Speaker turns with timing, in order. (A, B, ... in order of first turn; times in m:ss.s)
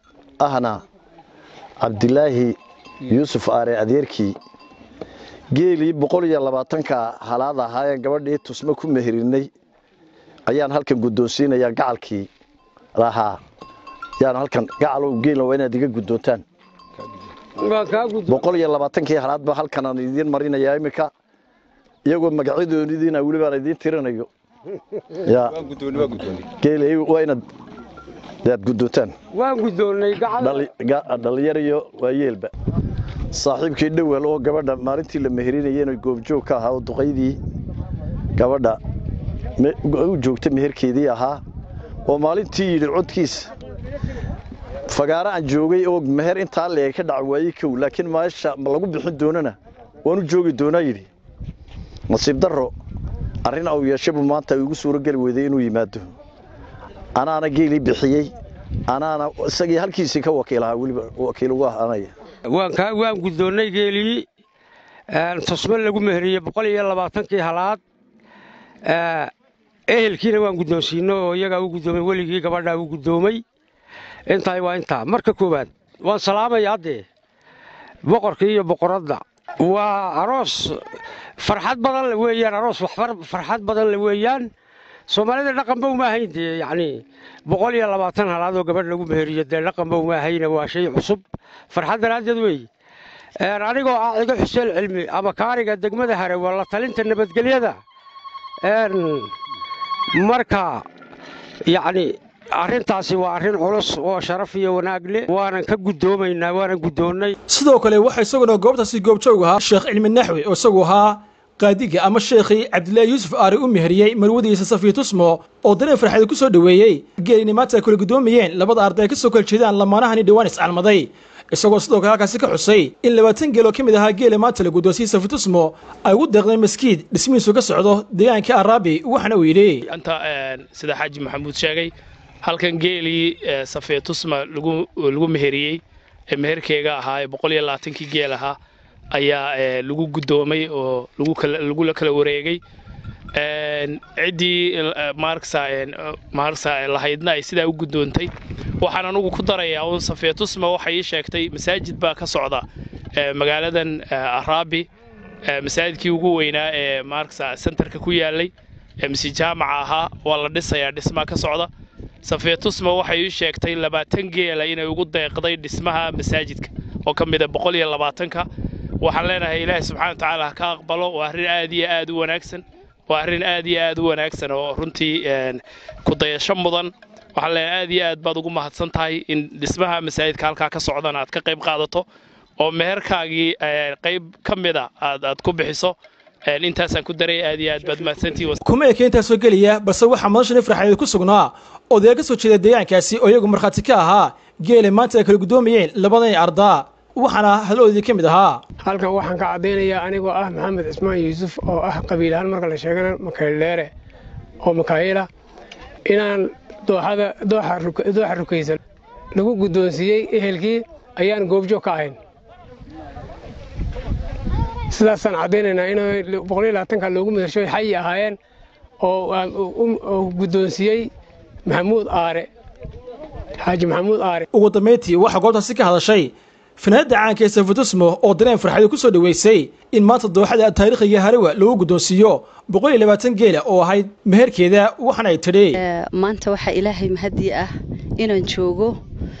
0:00.4-0:00.8 A
0:01.8-0:04.4 A
0:05.5-0:09.5 A
0:10.4-0:12.3 A
0:12.9-0:13.4 A
0:14.2-0:16.4 A
0:17.6-0:18.4 B
0:18.3-0:21.1 A
0:22.0-0:24.3 A
0:25.2-0:27.4 A
0:28.4-0:29.1 A
0:29.3-0:30.6 B
0:30.4-0:32.5 A
0:33.3-0:37.4 A
0:38.4-0:38.8 A
0:39.6-0:41.4 A
0:42.1-0:43.5 A
0:44.9-0:51.1 A
0:52.1-0:52.7 A
0:53.4-0:56.1 A
0:57.1-0:58.3 A
0:58.9-1:02.1 A
1:02.5-1:04.3 B
1:05.1-1:07.8 B
1:08.8-1:09.3 B
1:09.9-1:13.4 B
1:14.3-1:17.0 B
1:18.0-1:24.5 B
1:25.1-1:32.7 B
1:33.4-1:37.8 B
1:38.6-1:39.3 B
1:40.1-1:40.8 B
1:41.6-1:47.4 B
1:47.5-2:09.8 C
2:09.9-2:18.6 D
2:19.1-2:22.6 D
2:23.3-2:32.6 D
2:33.2-2:34.9 D
2:35.4-2:41.7 D
2:42.2-2:48.5 D
2:49.0-3:02.0 D
3:02.6-3:06.0 D
3:06.5-3:08.6 D
3:08.6-3:18.6 C
3:18.8-3:23.9 E
3:24.6-3:25.3 E
3:26.0-3:28.8 E
3:29.3-3:32.2 E
3:34.9-3:38.4 E
3:39.0-3:41.1 E
3:41.6-3:42.5 E
3:43.6-3:44.5 E
3:44.5-3:55.8 C
3:55.8-3:59.0 F